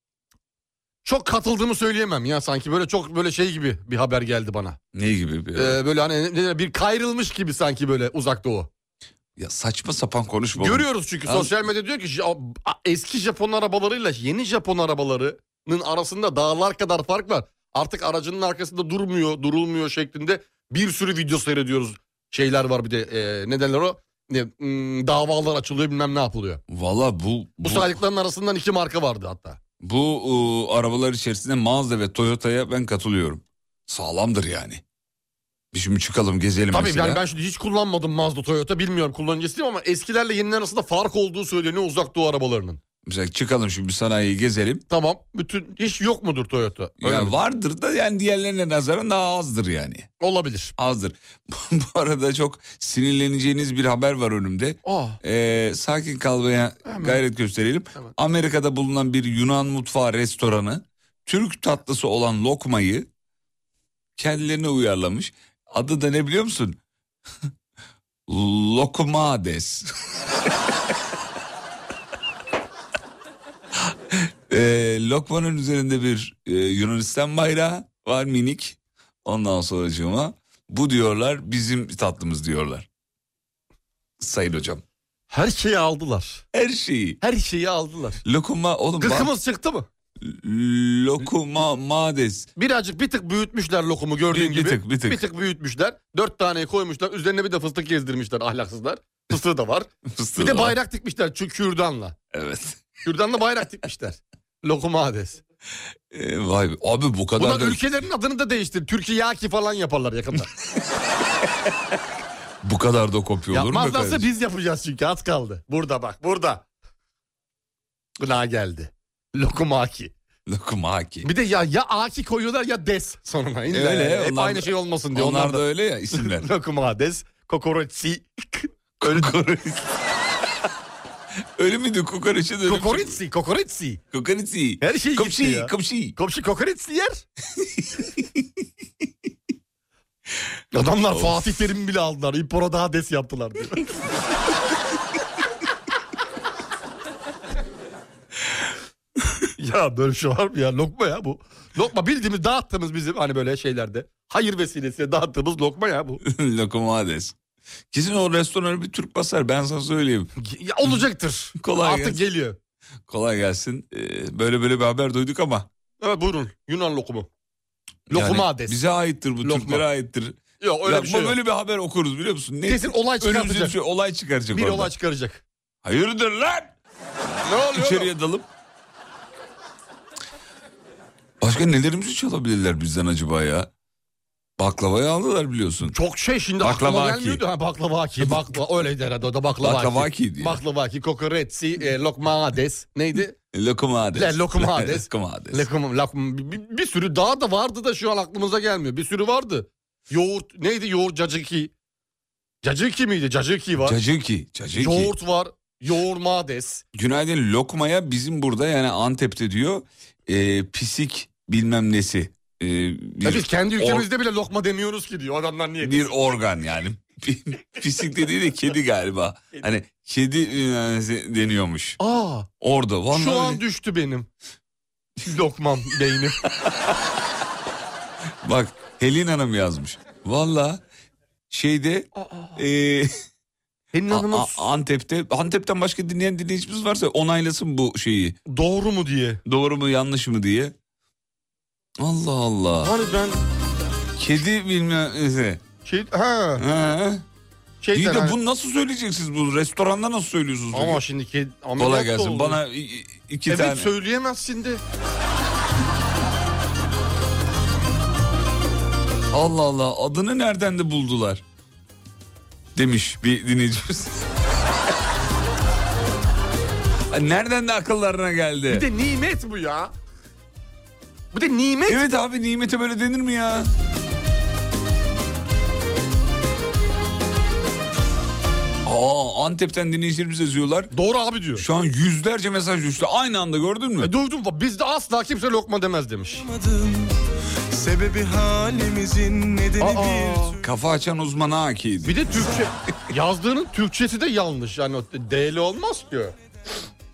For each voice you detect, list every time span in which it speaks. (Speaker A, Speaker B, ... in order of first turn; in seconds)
Speaker A: 1.0-4.8, 5.5-8.7, 10.6-26.6, 27.6-29.6, 36.7-42.8, 44.9-47.3, 50.2-50.7, 54.9-55.2, 56.9-57.2, 85.3-86.4, 87.2-88.2, 89.0-89.9, 92.6-102.2, 103.0-105.4, 107.4-110.5, 113.5-116.7, 118.2-120.1, 121.2-125.6, 126.2-129.3, 132.7-134.0, 134.8-137.2, 140.7-143.9, 149.6-156.2, 160.4-162.6, 166.0-167.3, 168.1-168.8, 169.4-169.8, 170.6-171.4, 172.7-173.8, 174.5-175.4, 177.5-178.1, 185.9-193.4, 194.1-201.7, 202.6-204.0, 204.7-206.8, 213.2-216.1, 222.0-222.5, 223.1-224.3, 225.2-226.4, 232.2-232.6, 233.9-234.6, 238.5-239.4, 242.8-243.4, 245.8-246.7, 247.8-248.4, 250.7-252.6, 253.5-254.8, 268.7-269.9, 271.3-272.0, 280.9-281.6, 284.0-286.5, 289.8-290.6, 292.1-296.4
Speaker B: 4.9-5.8, 9.4-11.5, 26.7-28.0, 29.8-34.8, 35.7-37.2, 43.0-44.8, 47.0-50.1, 50.8-63.1, 64.2-66.8, 68.3-69.9, 73.9-82.9, 84.2-84.8, 86.5-87.2, 88.2-89.3, 90.2-92.5, 94.3-95.2, 100.1-100.8, 102.3-103.0, 106.1-107.8, 112.6-114.3, 120.5-121.3, 123.7-126.5, 129.0-129.9, 131.6-133.2, 134.1-136.2, 137.6-138.0, 141.1-141.4, 156.2-157.4, 157.9-160.3, 161.6-162.2, 163.1-165.7, 168.1-174.9, 175.8-176.7, 177.5-178.5, 181.4-183.7, 184.6-186.0, 186.6-187.4, 188.2-188.6, 189.6-190.6, 193.5-195.7, 203.8-205.1, 206.9-214.1, 215.8-222.0, 222.6-223.6, 228.4-230.8, 231.5-233.2, 234.1-238.4, 239.5-240.7, 242.0-242.9, 244.2-245.6, 246.6-247.2, 247.9-251.0, 251.8-253.9, 259.3-261.4, 262.8-264.3, 267.1-268.9, 271.9-273.7, 278.8-280.9, 281.6-284.1, 290.6-292.5
Speaker C: 286.4-287.1, 287.7-290.6